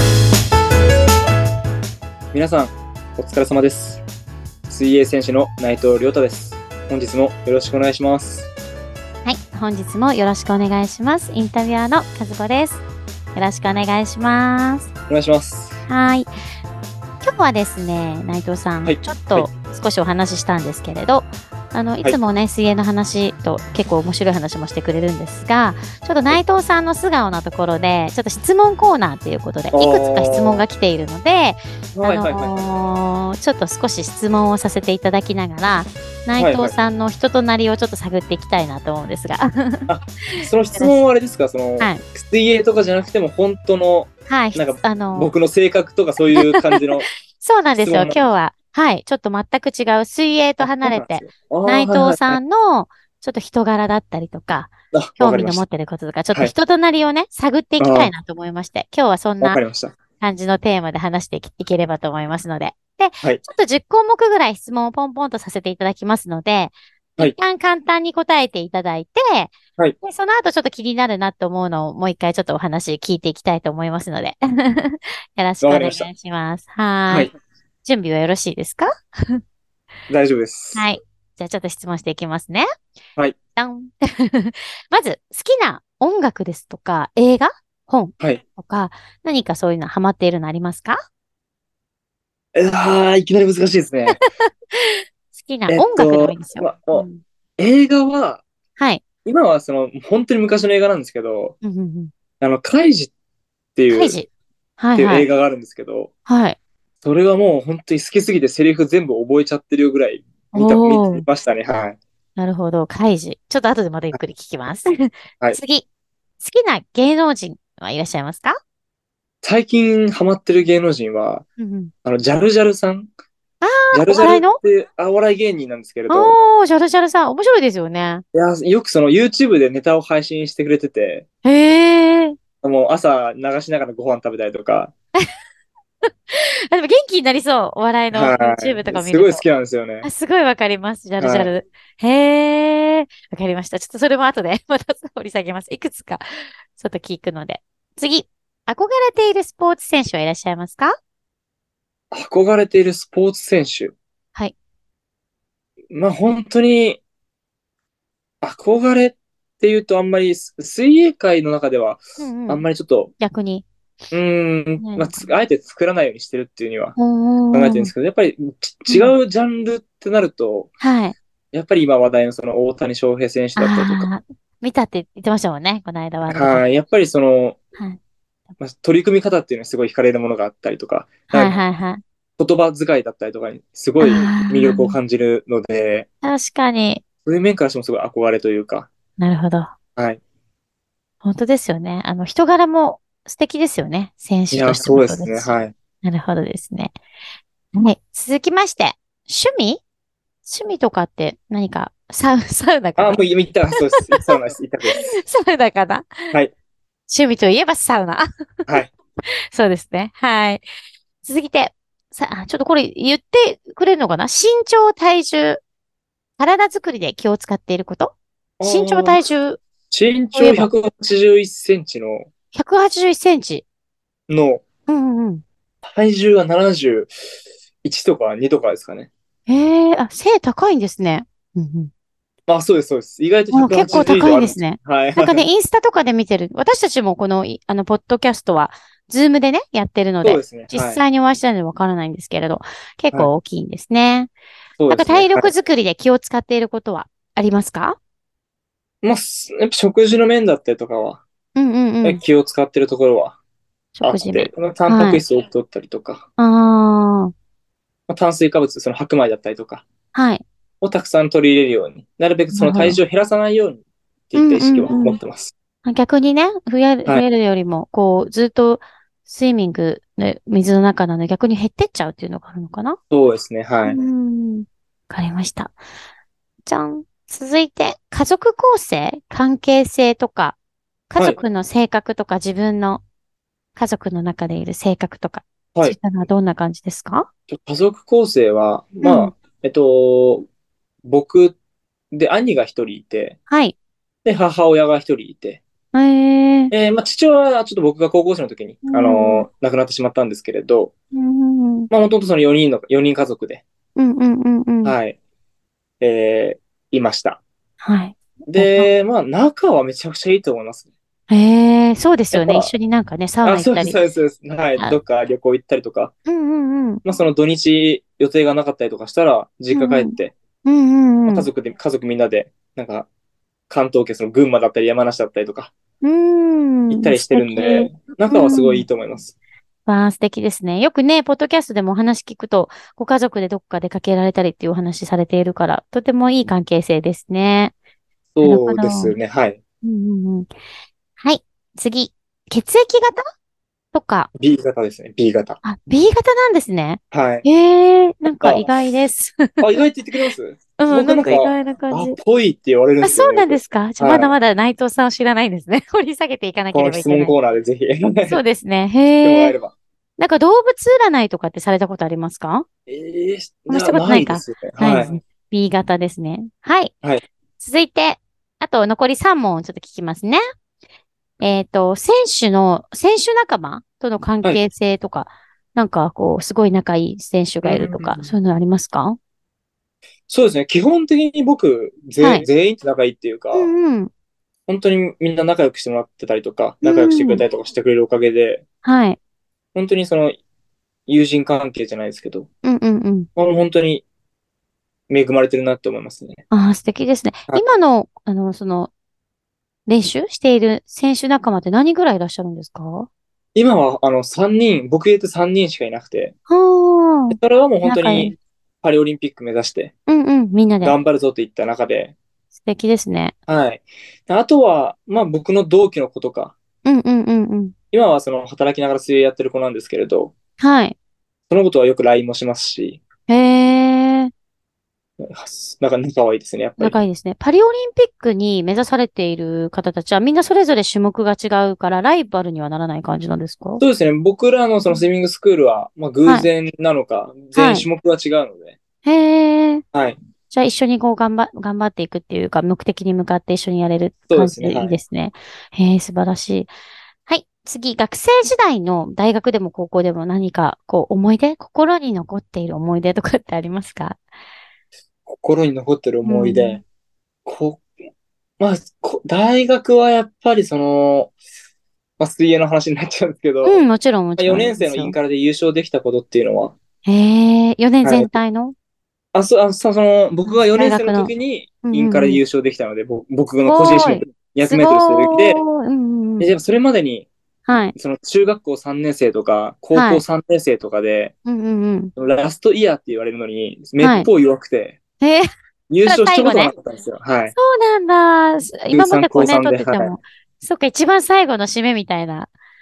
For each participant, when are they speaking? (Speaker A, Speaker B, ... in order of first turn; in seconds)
Speaker A: 2.3-4.0, 4.7-8.5, 15.1-15.8, 18.8-19.5, 29.7-30.6, 31.9-32.7, 36.4-36.7, 39.9-47.1, 47.8-48.2, 50.6-52.4, 54.9-55.6, 57.8-58.1, 59.4-59.9, 75.6-76.1, 80.1-80.8, 92.5-94.2, 95.7-97.1, 97.6-98.4, 99.2-101.5, 102.4-103.1, 103.8-104.2, 105.0-106.1, 107.0-112.0, 119.4-121.4, 122.0-123.1, 123.9-126.3, 128.3-131.2, 132.6-134.9, 138.1-140.1, 141.2-141.5, 152.1-153.9, 155.9-157.0, 158.4-163.1, 164.1-167.0, 167.5-170.7, 171.5-174.1, 176.3-177.6, 178.6-181.6, 182.4-186.1, 187.2-188.9, 194.5-195.7, 203.0-205.1, 218.6-219.2, 219.9-222.3, 224.3-224.6, 225.8-227.1, 227.8-229.1, 232.5-235.4, 240.2-241.0, 244.8-245.5, 249.0-251.2, 252.0-253.4, 254.0-256.2, 258.1-259.8, 260.8-265.5, 273.1-274.0, 287.5-290.4, 291.0-291.6, 292.1-293.4, 294.2-295.6, 296.7-300.9, 301.9-303.6, 304.8-305.1, 306.0-307.4, 308.5-310.9, 312.3-312.7, 313.4-316.1, 317.0-320.3, 321.3-323.1, 323.7-325.7, 326.9-329.3, 338.4-339.6, 344.4-345.6, 347.1-347.4, 348.4-348.7, 349.6-354.4, 356.7-358.4, 359.2-359.7, 362.9-365.1, 377.6-378.3, 380.3-383.7, 384.7-388.6, 389.7-390.4, 391.1-392.5, 393.4-394.0, 395.1-396.4, 403.5-406.3, 407.3-409.9, 410.8-412.1, 413.5-416.5, 417.9-420.3, 421.5-423.0, 425.2-427.0, 433.8-438.8, 444.3-445.0, 455.2-456.8, 457.4-457.9, 458.6-461.3, 462.2-463.8, 464.4-466.8, 468.0-468.3, 469.3-475.6, 476.4-477.3, 477.9-481.3, 482.2-485.0, 485.9-487.5, 488.9-490.2
Speaker B: 9.2-14.9, 15.9-16.3, 17.2-41.0, 44.3-45.3, 46.3-46.8, 47.4-59.6, 60.2-77.3, 77.8-79.4, 80.7-82.6, 83.5-91.0, 94.5-97.2, 98.8-99.0, 101.6-102.1, 103.9-104.3, 104.8-105.3, 106.3-106.6, 110.5-111.2, 112.4-115.8, 116.4-118.5, 121.6-121.9, 123.6-124.6, 126.1-128.2, 131.4-132.3, 136.3-139.4, 140.0-146.2, 146.7-150.9, 162.2-162.7, 163.2-163.7, 164.8-165.2, 167.0-167.9, 168.9-169.1, 170.8-171.2, 173.6-176.7, 181.3-182.0, 184.0-185.0, 186.2-187.0, 189.2-189.7, 191.2-197.0, 197.7-199.8, 200.4-203.2, 204.9-206.1, 207.1-208.2, 209.5-210.6, 211.2-215.6, 216.4-219.6, 220.3-220.7, 222.5-223.6, 224.9-225.4, 229.5-231.9, 233.5-244.3, 244.9-248.0, 251.5-252.2, 253.9-255.2, 256.4-257.3, 260.1-260.4, 262.5-263.0, 264.4-265.2, 265.8-273.0, 273.8-275.8, 276.6-280.6, 281.1-283.0, 283.8-287.3, 289.0-289.4, 293.5-293.7, 295.9-296.7, 298.9-299.4, 301.1-301.9, 303.9-304.9, 307.8-308.9, 311.3-314.0, 316.3-317.0, 319.7-320.1, 320.6-321.5, 326.0-328.9, 329.9-337.7, 338.4-339.1, 339.8-340.5, 341.2-343.2, 343.9-344.3, 345.6-349.8, 350.8-352.1, 353.0-357.3, 358.3-359.5, 360.2-362.6, 363.7-366.9, 367.6-370.4, 371.4-379.2, 382.2-382.4, 383.5-384.1, 386.8-387.4, 388.8-389.2, 392.6-393.3, 396.5-398.9, 399.9-403.1, 406.5-408.3, 410.1-411.0, 412.6-413.3, 416.8-417.7, 420.6-420.9, 423.3-424.3, 426.8-433.8, 437.5-437.9, 439.0-439.8, 440.5-446.7, 447.3-454.2, 456.2-456.8, 463.6-465.1, 467.0-468.7, 470.4-471.3, 471.8-472.4, 473.6-476.5, 477.6-477.9, 479.9-480.2, 481.4-482.1, 484.0-484.3, 485.2-485.5, 486.1-486.7, 487.5-492.5